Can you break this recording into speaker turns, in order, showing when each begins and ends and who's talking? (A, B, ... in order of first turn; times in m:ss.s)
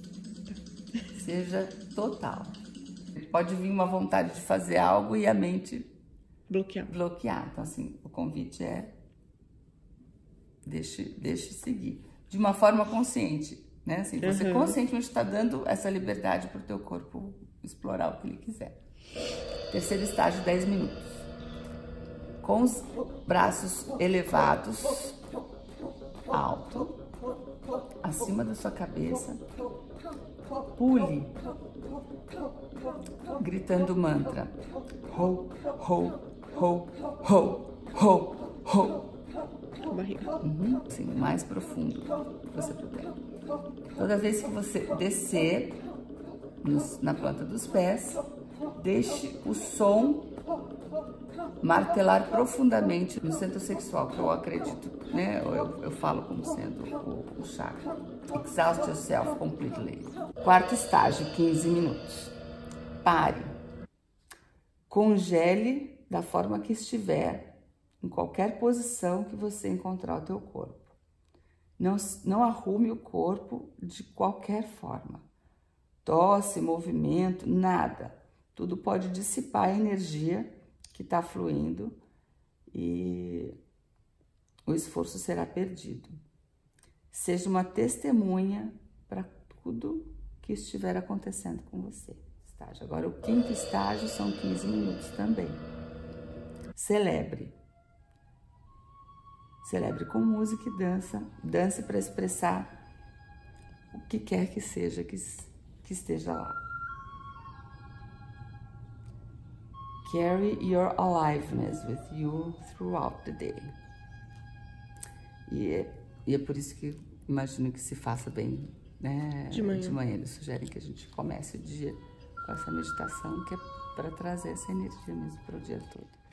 0:01.1-0:02.6 A
0:03.1-0:05.9 A
0:06.5-0:06.9 B
0:06.9-0:09.0 A
0:10.6-0:18.8 A
0:14.2-0:14.8 B
0:19.7-0:21.3 A
0:22.4-0:25.2 A
0:26.3-0:27.0 A
0:28.0-0:29.4 A
0:30.8-0:31.4 A
0:33.4-0:39.0 A
0:39.9-0:40.4 B
0:40.4-0:43.2 A
0:44.0-0:45.8 A
0:46.6-0:48.2 A
0:48.8-0:50.3 A
0:51.6-1:02.4 A
1:03.0-1:03.5 A
1:04.9-1:11.0 A
1:11.8-1:15.3 A
1:16.0-1:22.0 A
1:22.7-1:23.6 A
1:24.6-1:26.1 A
1:27.1-1:35.7 A
1:36.8-1:37.6 A
1:39.6-1:42.8 A
1:43.9-1:46.6 A
1:50.0-1:53.8 A
1:55.5-2:06.2 A
1:59.5-2:00.0 B